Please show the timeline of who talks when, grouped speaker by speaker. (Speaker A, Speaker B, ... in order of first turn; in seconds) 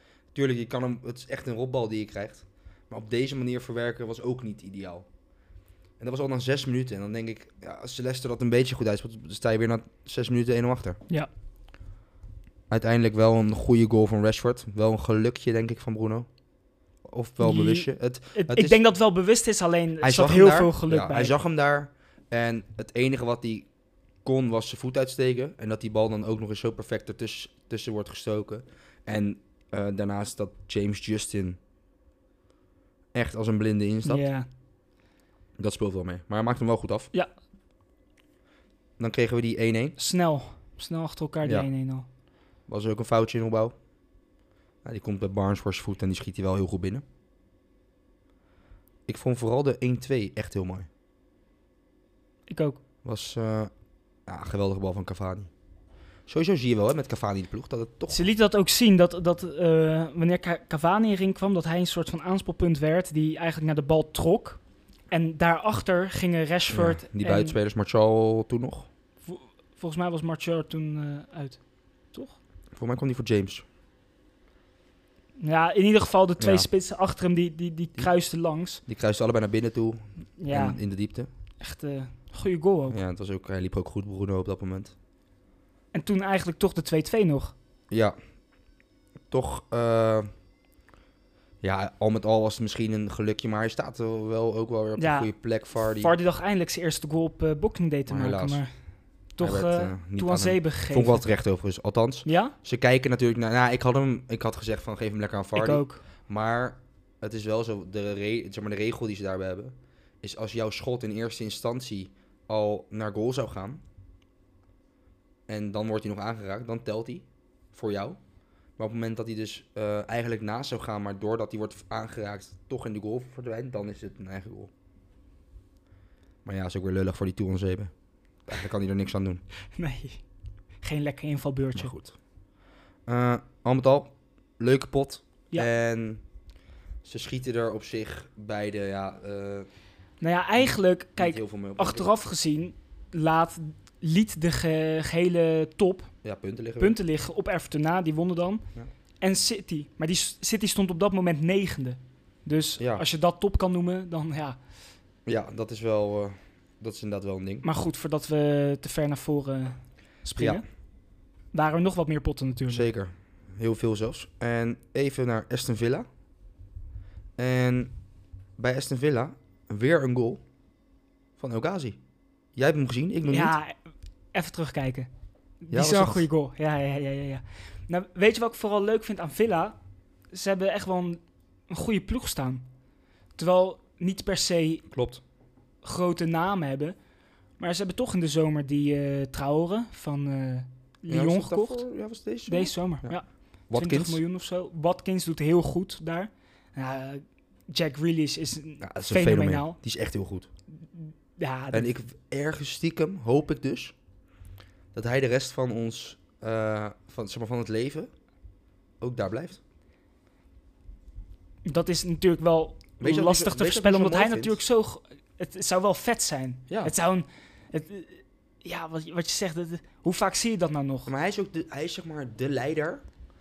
Speaker A: 0.3-5.1, 6.0-11.0, 12.7-16.3, 17.1-18.8, 20.0-23.7, 24.2-31.6, 33.1-34.2, 35.6-37.1, 39.0-40.0, 42.7-43.7, 44.8-47.0, 49.1-50.9, 53.0-53.7, 54.3-55.5, 56.3-58.3, 66.7-68.9, 72.8-73.6, 76.4-76.7, 78.9-81.3, 82.9-84.9, 87.9-88.2, 89.3-90.3, 91.6-96.1, 98.1-98.6, 99.4-113.8, 115.5-118.2, 118.8-124.7, 126.5-127.9, 128.5-129.4, 131.8-132.2, 133.1-136.2, 137.0-139.7, 141.2-142.1, 146.2-147.0, 152.8-153.0, 155.3-157.7, 160.4-160.6, 162.7-166.1, 167.4-167.9, 168.6-170.4, 171.4-172.0, 172.6-173.6, 175.7-176.3, 184.9-185.2, 191.1-193.2, 193.7-194.2, 198.8-200.5, 201.7-204.0, 204.9-208.1, 209.0-209.6, 213.0-214.6, 221.1-223.0
Speaker B: 17.4-21.3, 34.0-34.5, 40.0-42.1, 52.5-52.8, 58.1-64.6, 65.1-67.6, 69.3-71.6, 75.4-78.8, 80.4-80.8, 81.6-83.0, 85.9-87.5, 95.0-98.7, 99.4-101.2, 102.3-102.5, 105.5-106.0, 129.8-130.2, 130.8-131.9, 140.2-146.1, 146.8-148.6, 149.2-154.6, 157.6-160.6, 161.5-162.8, 173.3-173.8, 174.3-175.1, 175.6-179.8, 180.3-182.6, 183.4-184.8, 185.8-187.0, 187.6-191.8, 192.5-199.8, 200.9-201.9, 211.7-221.1